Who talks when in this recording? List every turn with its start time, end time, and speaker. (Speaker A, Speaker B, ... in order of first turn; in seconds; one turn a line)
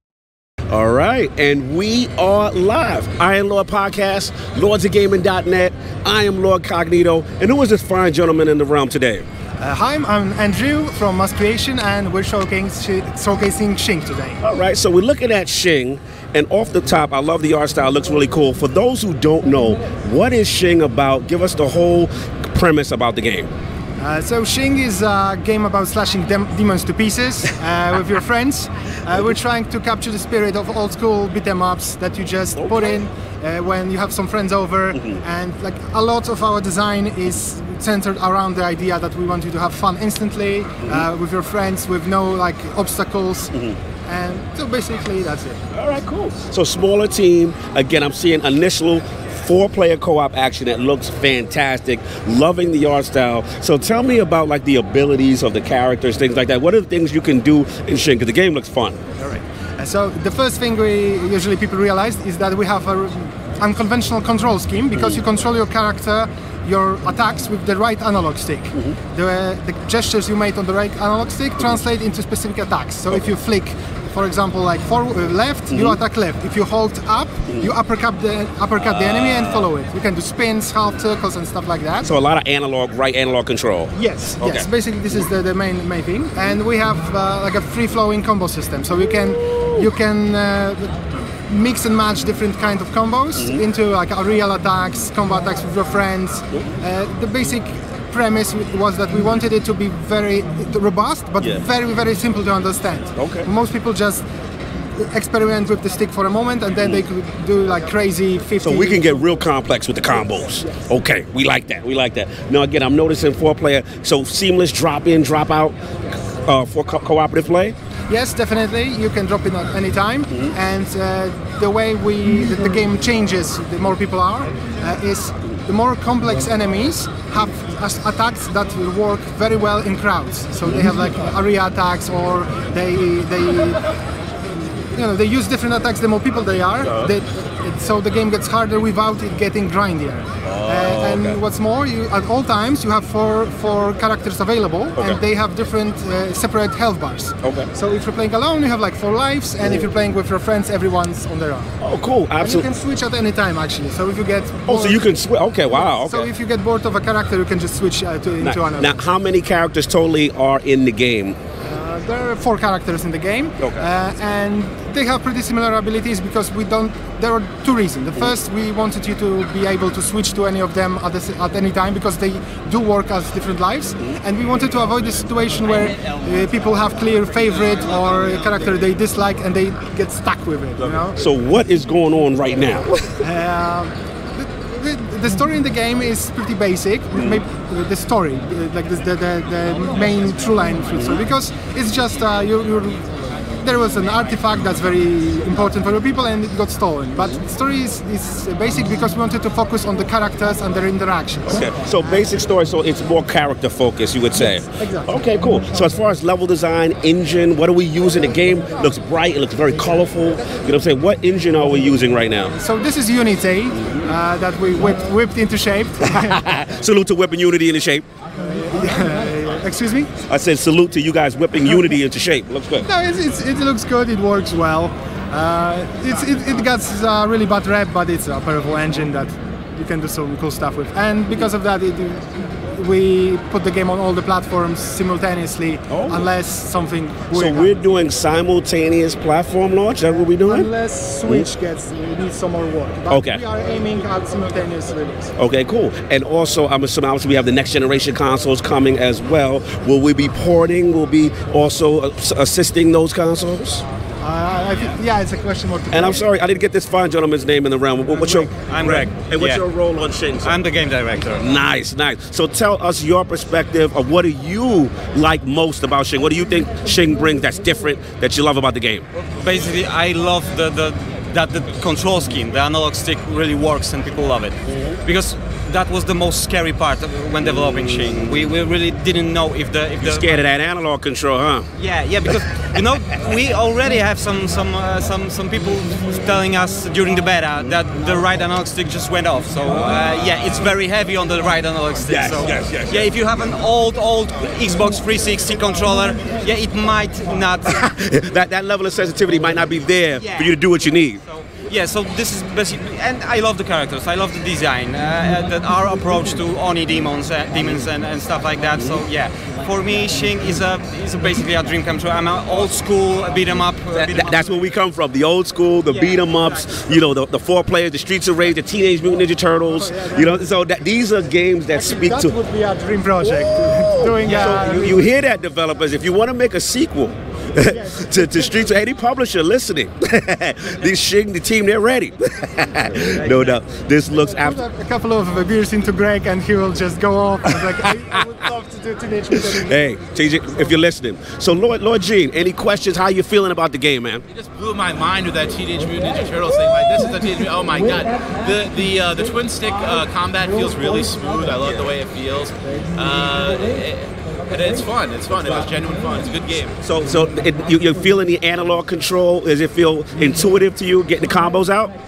Speaker A: 0.7-9.2
Speaker B: 9.6-14.4
Speaker A: 14.4-23.5
Speaker B: 24.0-43.5
Speaker A: 32.6-33.0
Speaker A: 35.0-35.2
Speaker B: 44.1-45.6
Speaker A: 45.7-59.0
Speaker B: 59.2-82.1
Speaker A: 75.7-76.0
Speaker A: 78.8-79.7
Speaker A: 82.0-84.7
Speaker B: 84.0-104.3
Speaker A: 89.4-89.9
Speaker A: 93.4-93.6
Speaker A: 103.2-103.5
Speaker B: 105.0-109.2
Speaker A: 106.7-107.0
Speaker A: 108.6-115.8
Speaker A: 116.3-117.8
Speaker B: 118.1-133.8
Speaker B: 134.9-151.8
Speaker A: 136.8-137.1
Speaker A: 140.4-141.4
Speaker A: 147.4-147.7
Speaker A: 151.8-152.7
Speaker B: 152.4-155.1
Speaker A: 154.7-156.3
Speaker B: 155.7-158.9
Speaker A: 158.4-161.4
Speaker B: 161.6-181.2
Speaker A: 180.8-183.2
Speaker B: 183.2-193.1
Speaker A: 190.9-191.2
Speaker B: 193.6-202.3
Speaker A: 201.5-212.6
Speaker B: 204.3-205.2
Speaker B: 212.6-216.5
Speaker A: 213.8-214.1
Speaker A: 216.1-218.1
Speaker B: 218.3-220.1
Speaker A: 220.3-222.9
Speaker B: 222.8-237.7
Speaker A: 235.9-236.3
Speaker A: 237.3-240.7
Speaker B: 240.4-245.3
Speaker A: 243.1-243.4
Speaker A: 245.4-253.8
Speaker B: 254.2-256.2
Speaker A: 255.9-260.6
Speaker C: 258.7-259.6
Speaker C: 260.4-261.4
Speaker A: 261.3-269.1
Speaker C: 269.3-280.4
Speaker A: 274.7-275.0
Speaker A: 277.4-278.5
Speaker A: 280.0-281.7
Speaker C: 281.8-297.9
Speaker A: 292.1-293.1
Speaker A: 297.7-301.2
Speaker C: 300.2-300.6
Speaker C: 301.2-314.5
Speaker A: 308.8-309.0
Speaker A: 313.9-322.3
Speaker B: 319.7-320.4
Speaker B: 321.7-325.1
Speaker A: 323.4-334.6
Speaker B: 327.7-328.7
Speaker B: 334.3-339.9
Speaker A: 339.3-344.2
Speaker D: 344.3-356.8
Speaker A: 351.6-351.9
Speaker A: 356.8-361.9